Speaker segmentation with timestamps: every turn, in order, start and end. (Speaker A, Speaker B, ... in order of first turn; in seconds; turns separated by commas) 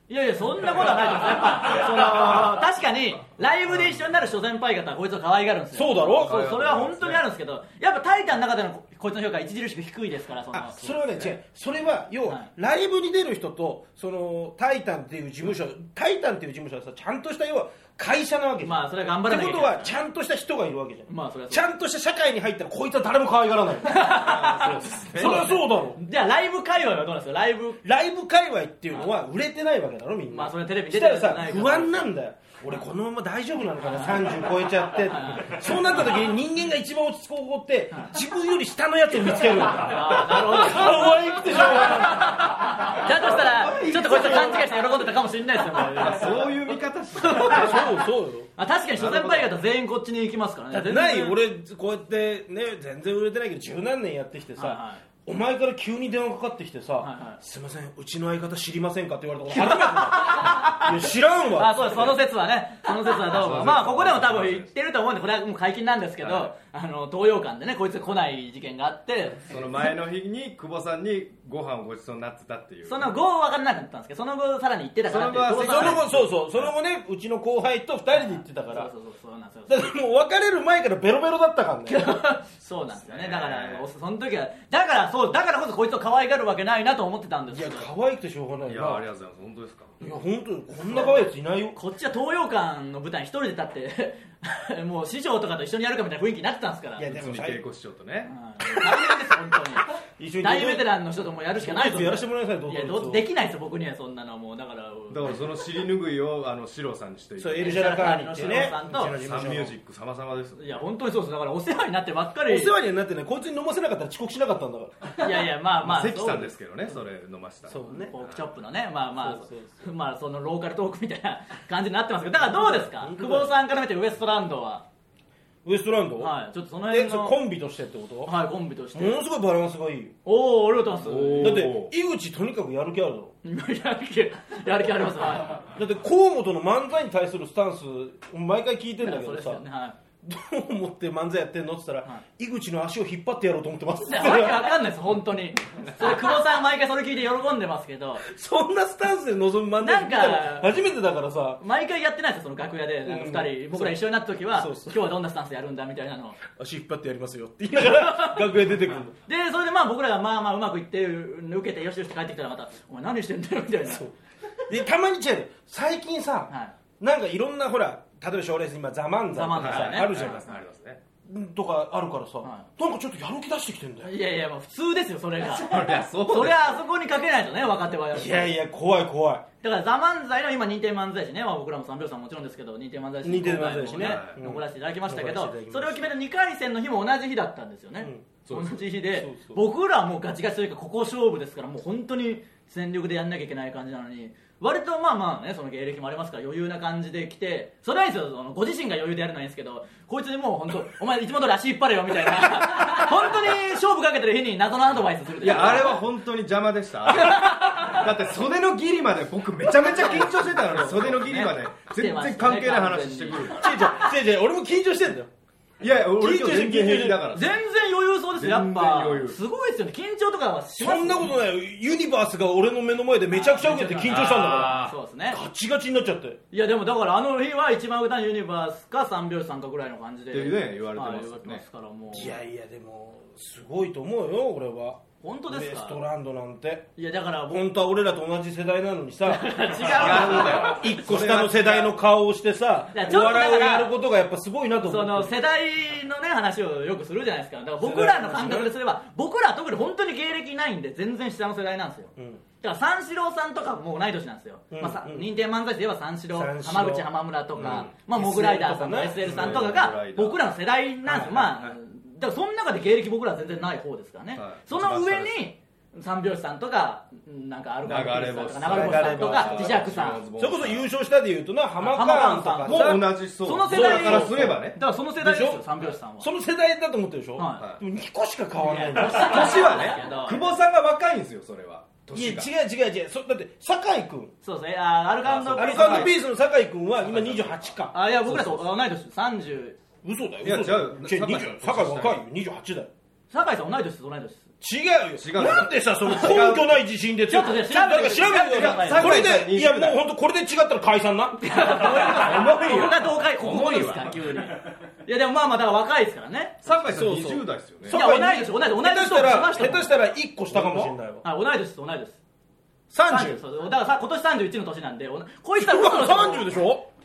Speaker A: 0.1-10.9, Speaker B: 1.7-2.2, Speaker C: 5.7-6.5, Speaker B: 6.2-7.2, Speaker C: 10.5-26.0, Speaker B: 10.8-11.3, Speaker A: 18.6-19.9, Speaker A: 21.1-21.6, Speaker A: 23.8-27.8, Speaker B: 24.1-25.6, Speaker C: 27.8-42.4, Speaker A: 30.3-32.0, Speaker A: 33.8-34.4, Speaker A: 35.1-35.6, Speaker A: 39.6-51.4, Speaker B: 43.0-44.7, Speaker B: 45.8-48.0, Speaker C: 47.4-48.5, Speaker B: 49.0-49.5, Speaker C: 50.7-62.1, Speaker A: 54.5-55.0, Speaker A: 57.0-57.4, Speaker A: 59.5-61.0, Speaker A: 61.5-69.6, Speaker B: 63.3-64.7, Speaker B: 66.2-66.5, Speaker B: 69.5-73.1, Speaker A: 72.8-76.0, Speaker B: 75.1-76.7, Speaker C: 75.5-78.9, Speaker A: 78.1-79.9, Speaker C: 79.7-82.0, Speaker A: 81.9-87.9, Speaker B: 82.9-83.8, Speaker C: 87.5-89.0, Speaker B: 88.7-90.1, Speaker C: 90.0-91.8, Speaker A: 90.8-97.1, Speaker C: 97.0-97.6, Speaker B: 97.0-98.3, Speaker A: 98.2-105.4, Speaker C: 98.6-99.3, Speaker C: 100.2-100.9, Speaker C: 101.6-103.2, Speaker B: 105.1-110.7, Speaker C: 107.4-109.7, Speaker A: 107.6-109.2, Speaker A: 110.6-112.7, Speaker C: 112.5-115.1, Speaker A: 115.1-116.5, Speaker B: 115.8-118.5, Speaker C: 117.7-118.1, Speaker A: 117.9-124.8, Speaker C: 119.2-119.7, Speaker C: 122.4-123.5, Speaker C: 125.6-126.3, Speaker A: 126.2-127.4, Speaker C: 126.9-128.3, Speaker A: 128.2-129.2, Speaker C: 128.9-130.1, Speaker A: 130.2-131.7, Speaker B: 131.0-131.9, Speaker C: 131.4-133.3, Speaker A: 133.4-135.7, Speaker C: 135.7-139.6, Speaker A: 139.0-139.9, Speaker C: 140.2-144.8, Speaker A: 144.0-148.2, Speaker C: 148.2-151.6, Speaker A: 149.8-150.7, Speaker A: 151.6-156.4, Speaker C: 153.0-155.0, Speaker C: 156.5-159.1, Speaker A: 157.7-158.6, Speaker A: 159.1-164.1, Speaker C: 163.9-164.1, Speaker C: 164.6-170.5, Speaker A: 169.3-170.4, Speaker B: 169.6-171.0, Speaker C: 171.2-174.1, Speaker A: 174.0-178.5, Speaker B: 175.4-176.8, Speaker C: 178.1-179.4, Speaker A: 179.6-206.0, Speaker C: 183.2-186.1, Speaker B: 183.9-184.4, Speaker C: 188.0-188.5, Speaker B: 188.5-188.8, Speaker C: 189.1-189.6, Speaker B: 205.4-213.9, Speaker A: 207.1-208.1, Speaker A: 209.7-213.6, Speaker C: 213.5-215.3, Speaker B: 215.8-217.6, Speaker C: 216.2-217.2, Speaker A: 217.3-221.3, Speaker B: 218.3-219.4, Speaker C: 220.8-226.4, Speaker A: 223.3-225.4, Speaker B: 224.1-224.9, Speaker A: 226.5-232.4, Speaker B: 230.3-231.6, Speaker C: 232.1-236.9, Speaker A: 235.2-236.0, Speaker A: 237.0-237.6, Speaker C: 237.5-245.3, Speaker A: 239.2-240.9, Speaker B: 239.8-242.0, Speaker A: 242.9-243.9, Speaker A: 244.8-270.2, Speaker C: 247.8-248.7, Speaker C: 252.2-252.4, Speaker C: 254.7-255.3, Speaker C: 256.3-259.7, Speaker B: 257.6-257.9, Speaker B: 259.2-260.4, Speaker C: 261.1-261.6, Speaker B: 264.4-265.3, Speaker B: 267.8-270.9, Speaker C: 268.6-273.0, Speaker A: 271.8-276.3, Speaker B: 272.6-274.8, Speaker C: 273.7-274.6, Speaker C: 275.2-280.0, Speaker A: 277.4-277.6, Speaker A: 278.6-280.5, Speaker B: 279.1-282.5, Speaker C: 282.1-284.3, Speaker A: 284.4-286.1, Speaker B: 285.2-286.2, Speaker C: 285.5-288.6, Speaker B: 287.0-287.7, Speaker A: 287.9-289.8, Speaker C: 290.0-292.9, Speaker B: 290.4-292.2, Speaker A: 293.3-294.5, Speaker C: 294.6-301.8, Speaker B: 295.2-296.8, Speaker A: 297.3-299.2, Speaker B: 298.2-300.0, Speaker A: 301.4-306.6, Speaker B: 301.6-304.5, Speaker B: 306.6-308.0, Speaker C: 306.9-311.2, Speaker A: 307.9-309.9, Speaker A: 310.6-312.2, Speaker C: 312.9-313.4, Speaker A: 313.1-316.5, Speaker C: 315.6-316.9